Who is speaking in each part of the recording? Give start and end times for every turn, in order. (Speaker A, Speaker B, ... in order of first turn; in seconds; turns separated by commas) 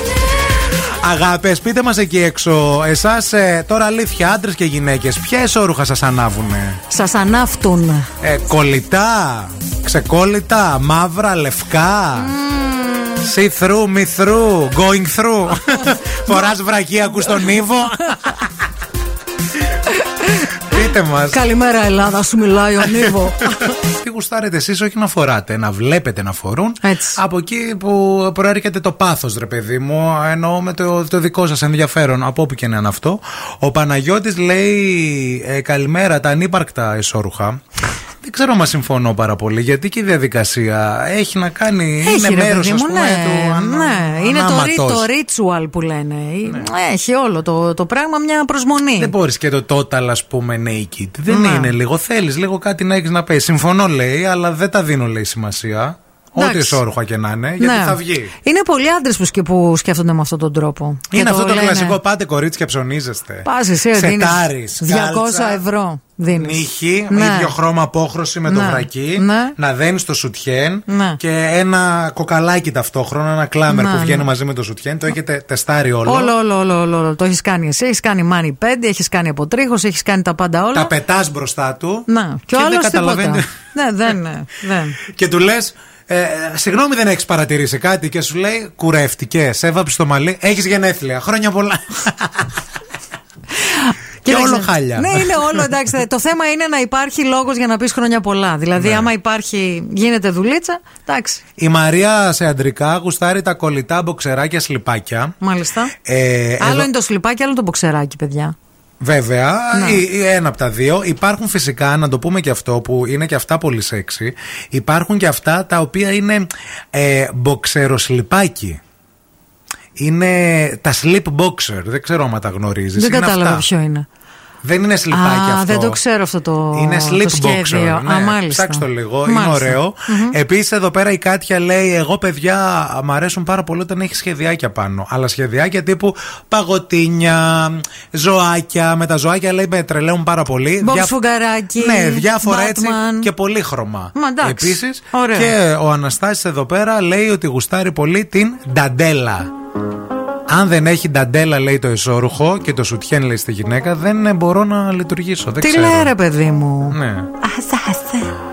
Speaker A: 1.0-6.8, Speaker B: 6.9-8.1, Speaker A: 8.2-12.3, Speaker B: 12.2-13.3, Speaker A: 13.2-18.5, Speaker B: 20.2-20.5, Speaker A: 20.6-21.4, Speaker B: 21.3-23.7, Speaker A: 23.7-37.6, Speaker B: 26.8-27.2, Speaker A: 38.2-45.1, Speaker B: 42.0-49.1, Speaker A: 49.0-58.3, Speaker B: 51.3-51.7, Speaker B: 56.4-56.8, Speaker B: 57.6-62.0, Speaker A: 61.1-65.6, Speaker B: 63.4-67.5, Speaker A: 66.3-76.3, Speaker B: 68.5-69.5, Speaker B: 70.9-71.2, Speaker B: 73.7-74.3, Speaker B: 76.0-80.9, Speaker A: 80.7-83.5, Speaker B: 82.1-85.0, Speaker A: 85.0-92.5, Speaker B: 93.7-101.4, Speaker A: 94.2-95.7, Speaker A: 98.8-99.1, Speaker A: 101.6-105.3, Speaker B: 105.4-105.9, Speaker A: 106.0-106.9, Speaker B: 106.6-108.5, Speaker A: 109.0-118.8, Speaker B: 109.7-110.0, Speaker A: 120.0-123.7, Speaker B: 123.0-124.0, Speaker A: 124.6-126.0, Speaker B: 125.1-130.3, Speaker A: 126.7-141.1, Speaker B: 140.8-143.3, Speaker A: 141.7-149.5, Speaker B: 144.2-145.5, Speaker A: 150.5-156.1, Speaker B: 155.6-158.3, Speaker A: 156.9-157.3